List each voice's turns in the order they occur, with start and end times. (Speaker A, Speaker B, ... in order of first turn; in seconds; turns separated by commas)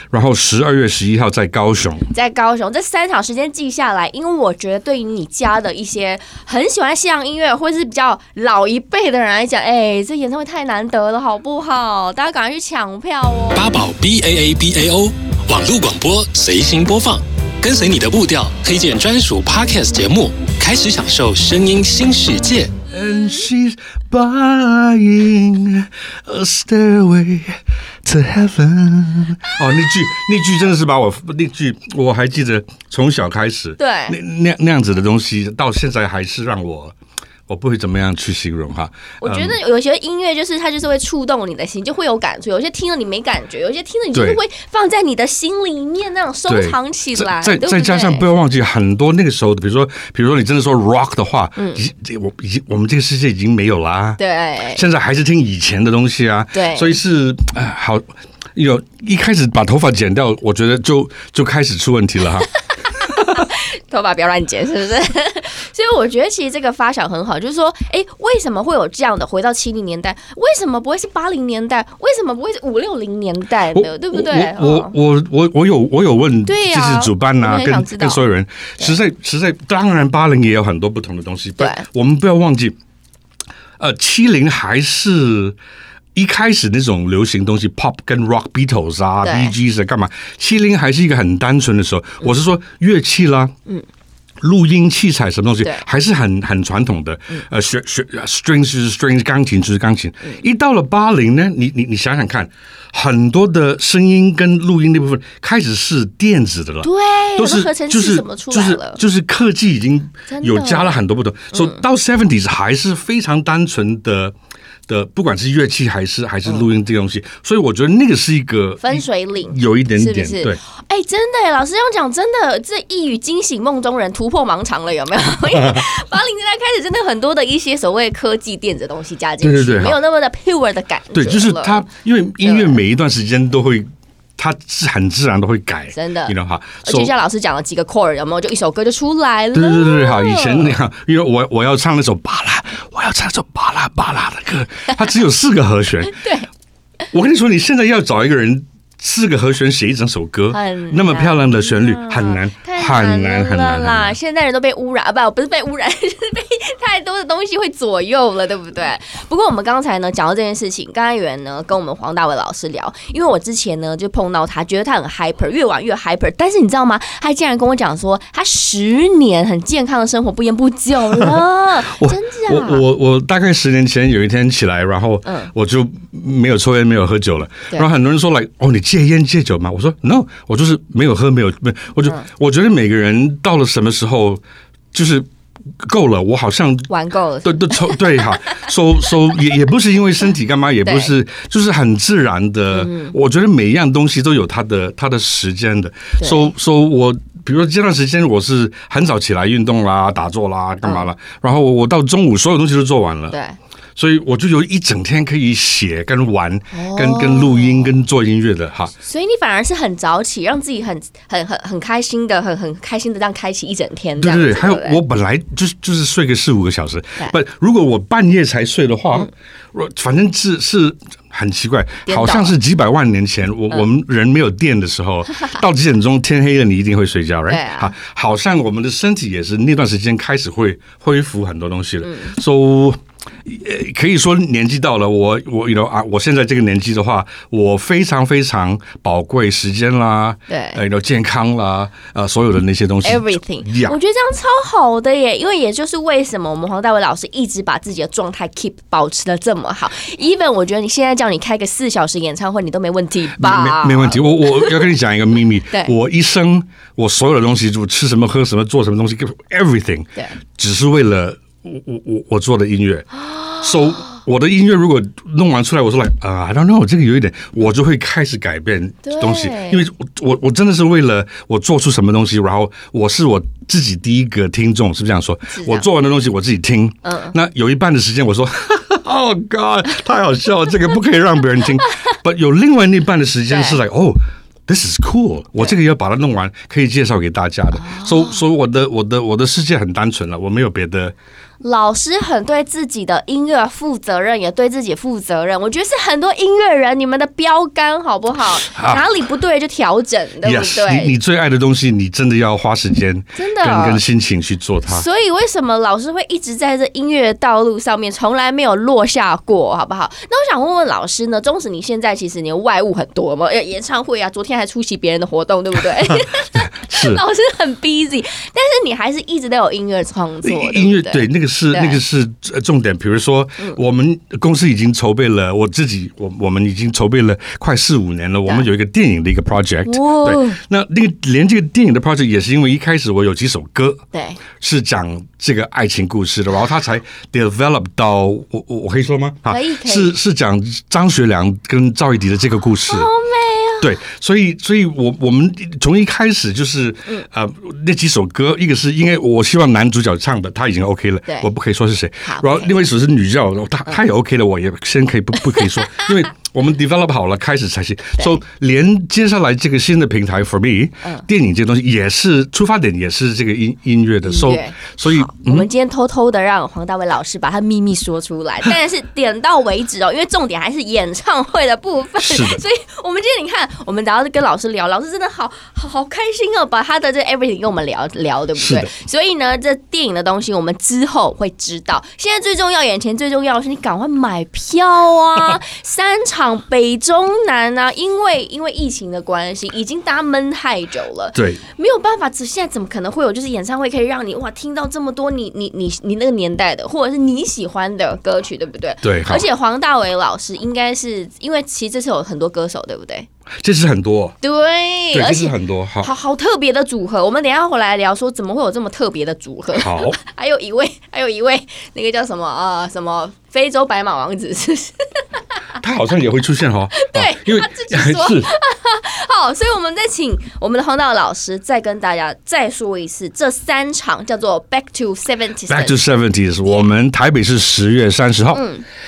Speaker A: 0.1-2.1, Speaker B: 2.1-13.7, Speaker C: 13.5-22.7, Speaker A: 22.9-37.0, Speaker B: 33.8-34.2, Speaker A: 37.5-39.6, Speaker B: 39.2-48.3, Speaker A: 44.1-44.4, Speaker A: 46.5-54.2, Speaker B: 51.6-51.8, Speaker B: 54.2-54.8, Speaker A: 54.7-62.5, Speaker B: 56.5-57.0, Speaker B: 63.1-75.0, Speaker A: 73.7-82.8, Speaker B: 76.5-78.2, Speaker B: 81.6-81.9, Speaker A: 83.8-85.6, Speaker A: 86.2-93.5, Speaker B: 89.2-89.5, Speaker A: 94.4-114.3, Speaker B: 106.8-109.0, Speaker B: 110.3-111.0, Speaker B: 111.5-111.8, Speaker A: 114.9-120.6, Speaker B: 118.8-131.8, Speaker A: 125.5-125.8, Speaker A: 129.4-130.0, Speaker A: 131.1-137.1, Speaker B: 132.4-132.8, Speaker B: 135.9-140.8, Speaker A: 139.5-146.2, Speaker B: 146.1-146.5, Speaker A: 147.1-154.2, Speaker B: 150.5-172.8, Speaker A: 171.1-184.4, Speaker B: 175.2-175.5, Speaker A: 184.9-185.3, Speaker A: 185.8-186.9, Speaker B: 186.9-188.6, Speaker A: 187.4-203.4, Speaker B: 190.8-191.1, Speaker B: 192.7-193.2, Speaker B: 196.2-196.5, Speaker B: 203.3-203.6, Speaker A: 204.0-208.9, Speaker B: 206.7-207.9, Speaker B: 209.0-215.0, Speaker A: 214.2-244.0, Speaker B: 222.1-222.6, Speaker B: 227.5-227.9, Speaker B: 232.0-232.4, Speaker B: 240.5-240.8, Speaker B: 243.0-254.8, Speaker A: 253.3-263.1, Speaker B: 263.1-264.2, Speaker A: 263.6-291.1, Speaker B: 269.0-269.9, Speaker B: 275.5-275.9, Speaker B: 277.0-277.4, Speaker B: 283.5-283.8, Speaker B: 287.8-288.4, Speaker B: 291.6-301.1, Speaker A: 298.6-299.1, Speaker A: 300.4-305.1, Speaker B: 303.4-304.0, Speaker B: 304.9-322.0, Speaker A: 316.1-317.2, Speaker A: 320.4-334.0, Speaker B: 329.9-330.6, Speaker B: 334.1-334.4, Speaker A: 334.6-343.1, Speaker B: 339.5-340.1, Speaker B: 342.9-343.9, Speaker A: 343.8-365.7, Speaker B: 352.2-352.8, Speaker B: 355.6-356.0, Speaker B: 364.2-403.3, Speaker A: 372.2-372.6, Speaker A: 378.6-378.9, Speaker A: 391.4-391.6, Speaker A: 399.0-399.5, Speaker A: 403.6-404.4, Speaker B: 404.4-415.2, Speaker A: 405.1-406.1, Speaker A: 409.7-410.2, Speaker A: 415.8-418.5, Speaker B: 416.9-426.0, Speaker A: 425.7-428.7, Speaker B: 428.5-428.8